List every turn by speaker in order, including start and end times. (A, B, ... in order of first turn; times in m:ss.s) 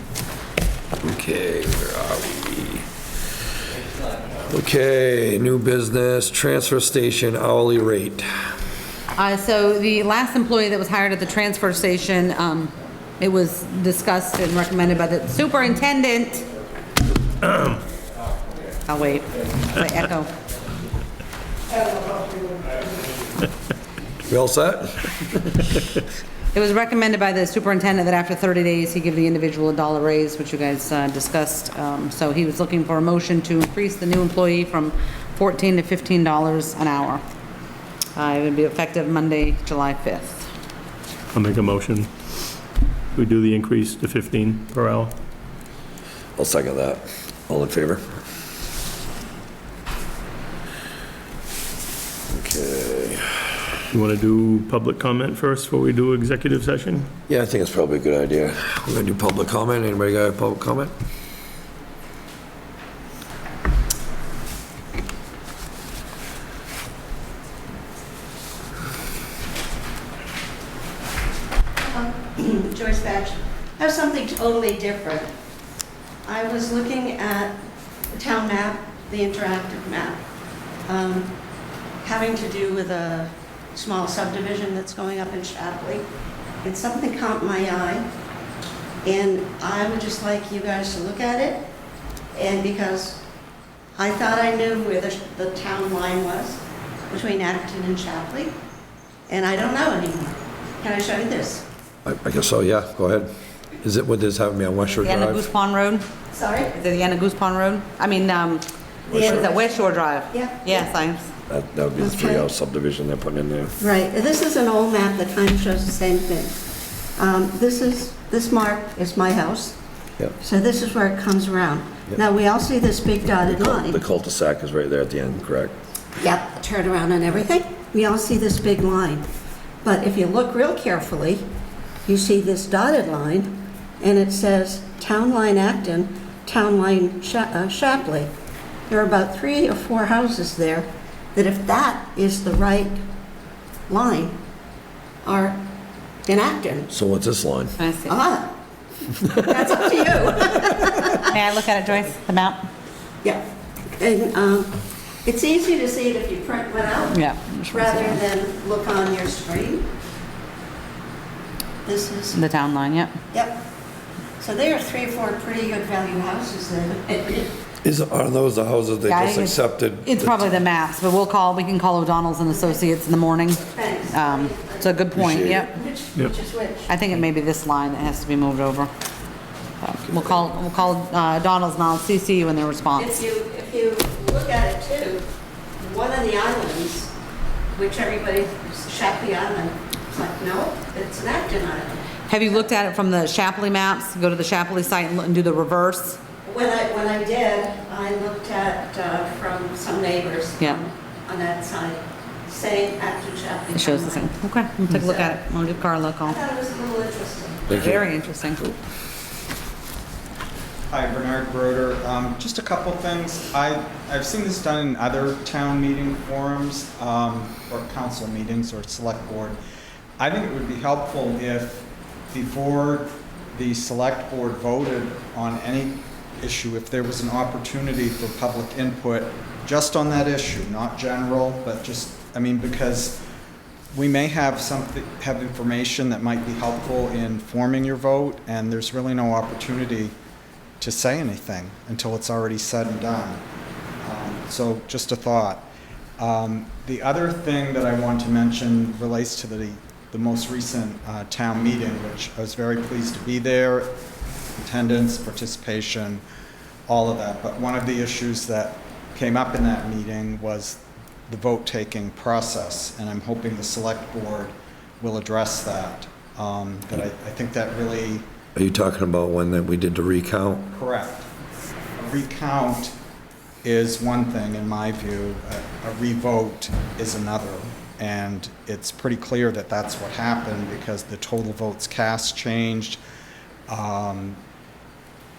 0:01.0-0:02.8 A
0:04.4-0:08.3 A
0:09.2-0:16.4 B
0:17.5-0:17.7 C
0:18.8-0:20.3 B
0:24.3-0:25.6 A
0:26.5-0:37.2 B
0:38.2-0:40.5 B
0:41.3-0:42.1 C
0:43.1-0:45.1 C
0:46.4-0:48.0 A
0:52.3-0:53.5 A
0:53.9-0:57.1 C
0:57.3-1:00.9 A
1:11.8-1:15.3 D
1:16.2-1:17.6 D
1:18.1-1:20.2 D
1:20.9-1:21.4 D
1:22.0-1:26.0 D
1:26.6-1:28.1 D
1:29.0-1:31.7 D
1:32.3-1:33.2 D
1:34.0-1:38.6 D
1:39.3-1:41.6 D
1:42.0-1:45.4 A
1:45.0-1:46.0 B
1:46.3-1:46.8 D
1:46.8-1:51.3 B
1:49.1-1:49.5 A
1:49.1-1:50.9 D
1:51.5-1:53.8 A
1:52.0-1:52.5 D
1:53.8-1:56.6 D
1:57.2-1:59.8 D
2:00.4-2:04.0 D
2:03.5-2:05.7 A
2:06.2-2:09.2 D
2:09.8-2:11.5 D
2:12.0-2:18.3 D
2:18.9-2:23.0 D
2:23.9-2:24.4 D
2:25.2-2:25.6 D
2:26.2-2:26.9 D
2:26.9-2:27.7 A
2:27.8-2:28.2 B
2:28.0-2:28.6 D
2:29.2-2:31.3 D
2:31.2-2:32.7 B
2:33.2-2:39.9 D
2:37.1-2:38.2 B
2:41.8-2:42.4 D
2:42.3-2:43.1 B
2:43.3-2:43.6 D
2:44.4-2:47.5 D
2:47.8-2:50.5 A
2:49.1-2:55.7 B
2:52.5-2:52.8 D
2:53.5-2:56.9 D
2:55.2-2:55.6 A
2:56.9-2:58.9 B
2:59.8-3:03.2 B
3:03.0-3:05.3 D
3:05.8-3:07.1 D
3:07.7-3:12.5 D
3:12.3-3:16.2 B
3:16.4-3:24.3 D
3:23.7-3:26.4 B
3:24.9-3:25.4 D
3:26.2-3:27.9 D
3:27.7-3:28.6 B
3:27.7-3:28.0 A
3:30.9-3:39.6 E
3:40.2-3:53.2 E
3:53.9-4:00.1 E
4:00.8-4:03.4 E
4:04.0-4:14.0 E
4:14.6-4:16.2 E
4:16.9-4:28.2 E
4:28.5-4:30.7 A
4:30.7-4:31.2 E
4:32.0-4:32.9 E
4:33.6-4:43.0 E
4:43.7-4:44.4 E